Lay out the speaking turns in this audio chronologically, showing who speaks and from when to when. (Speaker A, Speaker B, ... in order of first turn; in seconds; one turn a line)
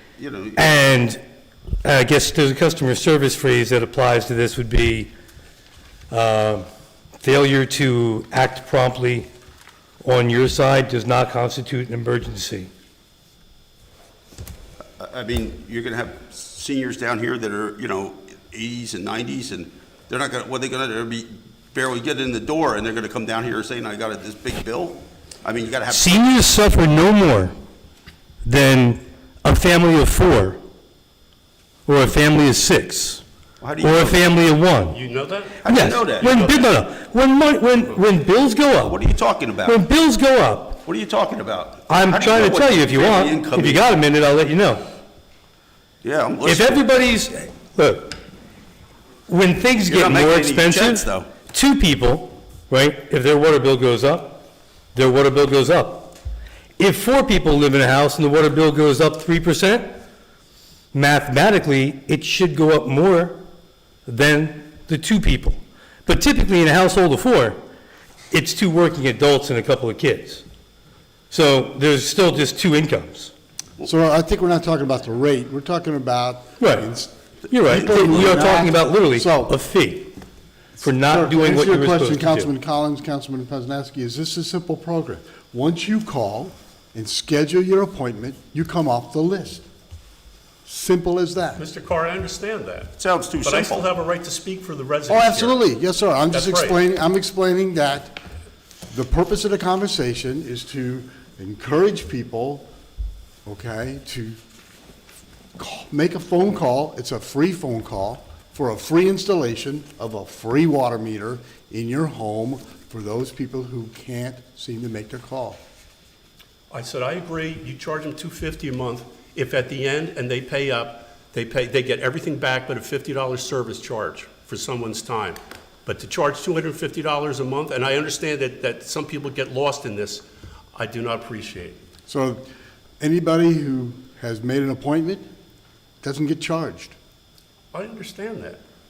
Speaker A: 0.2-0.7
Speaker B: 0.6-1.2
Speaker B: 1.8-5.1
Speaker B: 6.1-6.7
Speaker B: 7.2-9.3
Speaker B: 10.0-12.7
Speaker A: 15.0-26.3
Speaker B: 25.9-27.6
Speaker B: 28.4-30.6
Speaker B: 31.9-33.2
Speaker A: 33.6-34.3
Speaker B: 33.8-35.0
Speaker C: 34.9-36.7
Speaker A: 35.6-36.5
Speaker B: 35.6-39.0
Speaker A: 38.8-39.8
Speaker B: 39.6-40.8
Speaker A: 40.9-43.9
Speaker B: 41.9-44.8
Speaker A: 46.0-46.9
Speaker B: 46.4-48.2
Speaker B: 49.3-56.2
Speaker A: 49.9-51.3
Speaker B: 56.8-59.9
Speaker B: 60.9-63.4
Speaker B: 64.1-67.6
Speaker B: 68.3-70.4
Speaker B: 71.3-73.3
Speaker D: 73.8-77.1
Speaker B: 76.6-76.9
Speaker B: 77.5-80.2
Speaker D: 77.7-79.5
Speaker A: 77.7-78.2
Speaker B: 80.8-82.5
Speaker D: 81.0-89.6
Speaker D: 90.7-91.6
Speaker C: 91.6-95.6
Speaker A: 93.0-93.9
Speaker D: 95.1-98.2
Speaker C: 96.3-96.8
Speaker D: 98.9-102.7
Speaker D: 103.5-104.4
Speaker D: 105.6-115.6
Speaker C: 116.7-131.8
Speaker D: 132.1-132.4
Speaker D: 133.0-135.2
Speaker D: 136.0-136.9
Speaker C: 137.7-138.6